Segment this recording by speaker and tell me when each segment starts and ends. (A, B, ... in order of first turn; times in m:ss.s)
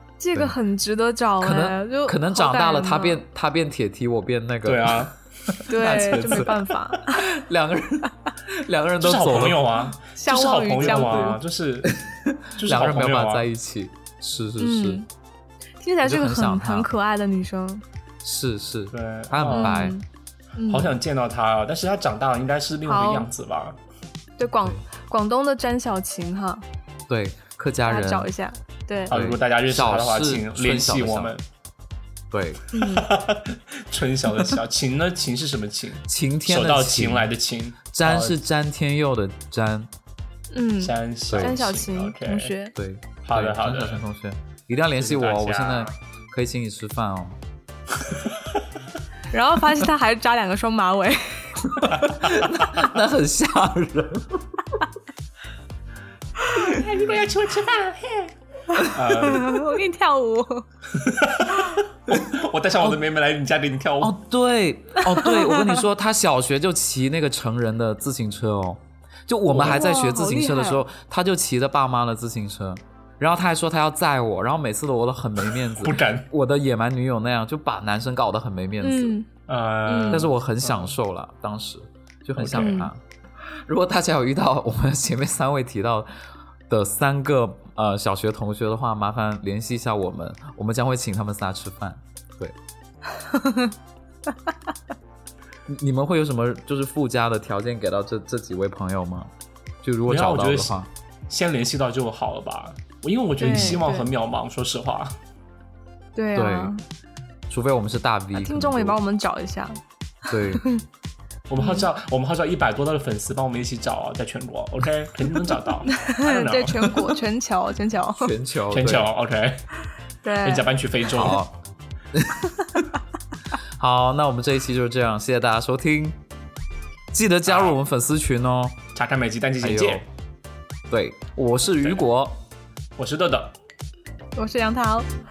0:00.2-0:03.2 A
0:01.4-0:09.8 B
0:04.6-0:05.2 C
0:05.7-0:07.3 A
0:09.0-0:12.0 C
0:10.2-0:11.4 A
0:10.8-0:11.2 B
0:11.8-0:15.0 B
0:12.6-0:13.5 C
0:14.6-0:15.0 A
0:15.8-0:17.8 A
0:16.0-0:16.9 B
0:18.2-0:20.0 B
0:18.9-0:19.8 C
0:19.5-0:20.0 A
0:20.6-0:21.0 A
0:20.7-0:23.8 C
0:22.8-0:23.3 A
0:24.4-0:26.6 A
0:27.1-0:28.3 B
0:27.8-0:29.1 A
0:29.1-0:31.4 C
0:29.1-0:31.3 B
0:32.3-0:32.6 B
0:32.7-0:33.1 A
0:32.9-0:38.4 C
0:36.1-0:37.3 B
0:37.9-0:39.9 B
0:40.5-0:42.7 A
0:40.8-0:42.5 C
0:41.3-0:41.6 B
0:42.7-0:47.4 B
0:43.2-0:44.0 C
0:45.0-0:45.9 C
0:49.3-0:52.1 A
0:51.7-0:54.8 B
0:52.0-0:52.5 C
0:56.5-0:58.3 C
0:58.7-1:00.6 A
0:58.8-0:59.7 C
1:00.9-1:04.1 C
1:04.0-1:19.2 B
1:05.0-1:05.7 A
1:09.5-1:09.8 C
1:09.6-1:10.8 A
1:15.7-1:16.3 C
1:18.8-1:19.3 A
1:19.5-1:20.9 C
1:19.8-1:20.2 A
1:20.1-1:23.0 B
1:22.4-1:22.8 C
1:22.6-1:22.9 A
1:23.5-1:26.1 B
1:26.7-1:32.5 B
1:33.2-1:33.7 A
1:35.7-1:39.3 B
1:39.8-1:40.9 B
1:40.1-1:45.1 C
1:43.4-1:44.1 A
1:43.5-1:43.8 B
1:46.1-1:46.8 A
1:46.3-1:46.7 B
1:47.5-1:49.0 B
1:48.3-1:50.8 A
1:50.3-1:50.6 B
1:51.5-1:57.0 C
1:51.6-1:51.9 A
1:55.9-1:58.3 A
1:58.1-1:59.1 B
1:58.7-1:59.6 C
2:00.2-2:00.7 A
2:00.4-2:01.4 C
2:01.0-2:01.5 B
2:02.1-2:02.9 B
2:03.8-2:06.2 B
2:07.1-2:08.8 B
2:07.4-2:07.8 C
2:08.9-2:10.0 C
2:09.6-2:10.0 B
2:10.9-2:12.4 B
2:13.0-2:13.5 C
2:14.4-2:15.1 A